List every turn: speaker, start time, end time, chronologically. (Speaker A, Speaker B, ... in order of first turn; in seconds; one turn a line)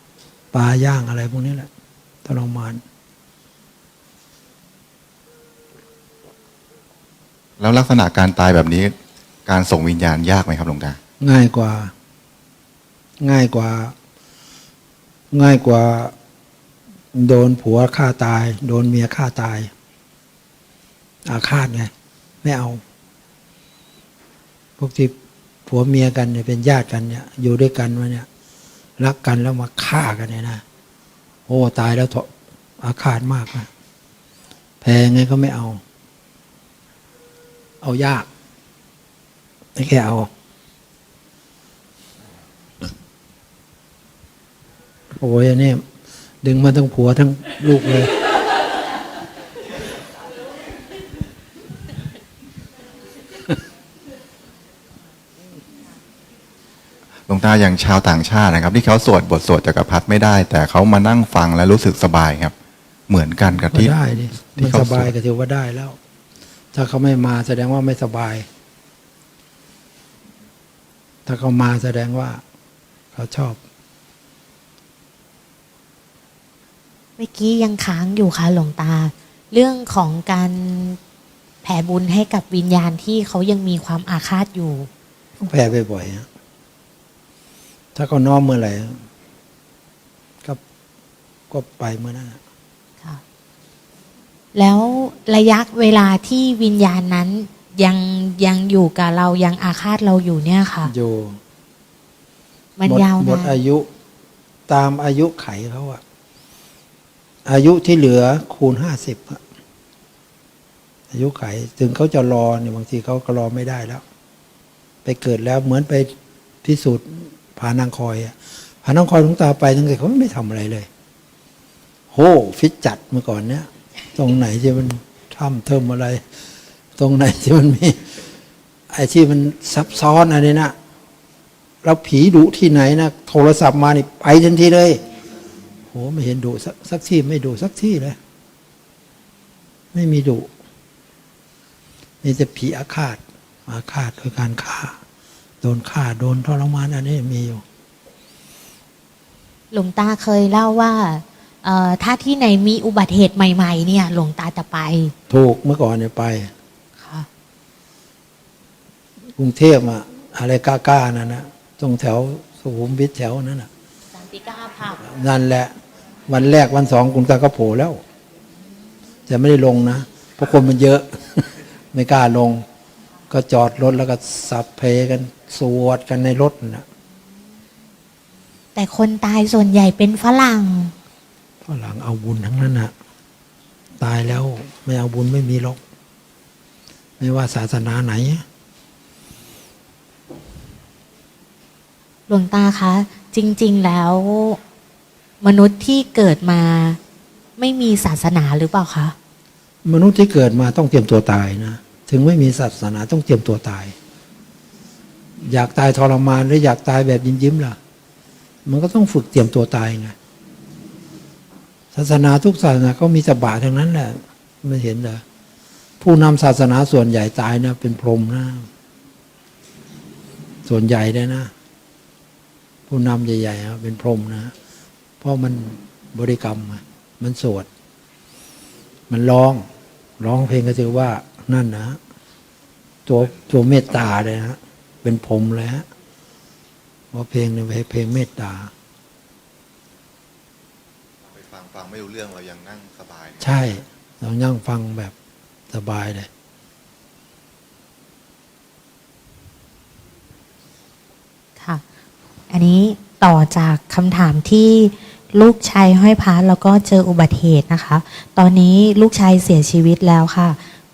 Speaker A: 0.5-1.7
Speaker A: 2.2-2.8
Speaker B: 7.6-8.9
Speaker B: 9.4-11.0
Speaker A: 11.2-11.9
Speaker A: 13.2-13.9
Speaker A: 15.3-16.1
Speaker A: 17.1-19.7
Speaker A: 21.2-21.9
Speaker A: 22.4-22.8
Speaker A: 24.8-25.1
Speaker A: 25.6-28.3
Speaker A: 29.0-30.6
Speaker A: 31.5-33.7
Speaker A: 34.8-35.8
Speaker A: 37.8-38.3
Speaker A: 39.8-40.3
Speaker A: 45.1-45.8
Speaker A: 46.4-48.1
Speaker B: 57.3-62.5
Speaker B: 63.1-63.9
Speaker A: 63.5-66.0
Speaker B: 64.5-65.1
Speaker A: 66.7-68.5
Speaker A: 71.2-72.4
Speaker A: 73.1-73.6
Speaker C: 77.2-81.0
Speaker C: 81.6-84.9
Speaker A: 85.4-86.3
Speaker A: 87.9-89.0
Speaker A: 91.5-92.4
Speaker C: 94.5-100.9
Speaker A: 100.8-101.4
Speaker C: 102.8-103.6
Speaker A: 102.8-103.9
Speaker A: 104.7-106.0
Speaker A: 107.4-109.4
Speaker A: 111.1-114.0
Speaker A: 115.0-116.1
Speaker A: 116.6-120.9
Speaker A: 122.1-126.2
Speaker A: 127.0-128.1
Speaker A: 128.9-130.7
Speaker A: 131.8-135.0
Speaker A: 135.9-138.2
Speaker A: 139.9-140.5
Speaker A: 142.2-145.0
Speaker A: 145.6-147.6
Speaker C: 149.7-155.1
Speaker A: 155.3-156.5
Speaker C: 157.0-157.3
Speaker A: 159.4-163.7
Speaker C: 164.1-165.1
Speaker A: 165.0-165.7
Speaker A: 166.3-168.0
Speaker A: 169.3-172.6
Speaker A: 173.3-176.8
Speaker C: 178.7-180.9
Speaker A: 181.6-182.9
Speaker A: 184.0-185.8
Speaker A: 187.2-188.4
Speaker C: 192.3-194.6
Speaker C: 195.4-197.0
Speaker C: 197.6-199.1
Speaker A: 199.8-203.9
Speaker A: 205.4-207.8
Speaker A: 208.6-210.2
Speaker A: 211.9-215.2
Speaker A: 216.0-218.7
Speaker A: 220.7-221.5
Speaker A: 222.9-224.5
Speaker A: 225.2-227.7
Speaker A: 229.1-229.7
Speaker A: 230.2-232.0
Speaker A: 233.1-235.8
Speaker A: 237.1-238.7
Speaker B: 241.3-243.4
Speaker A: 243.4-245.1
Speaker A: 245.7-246.3
Speaker C: 252.5-260.6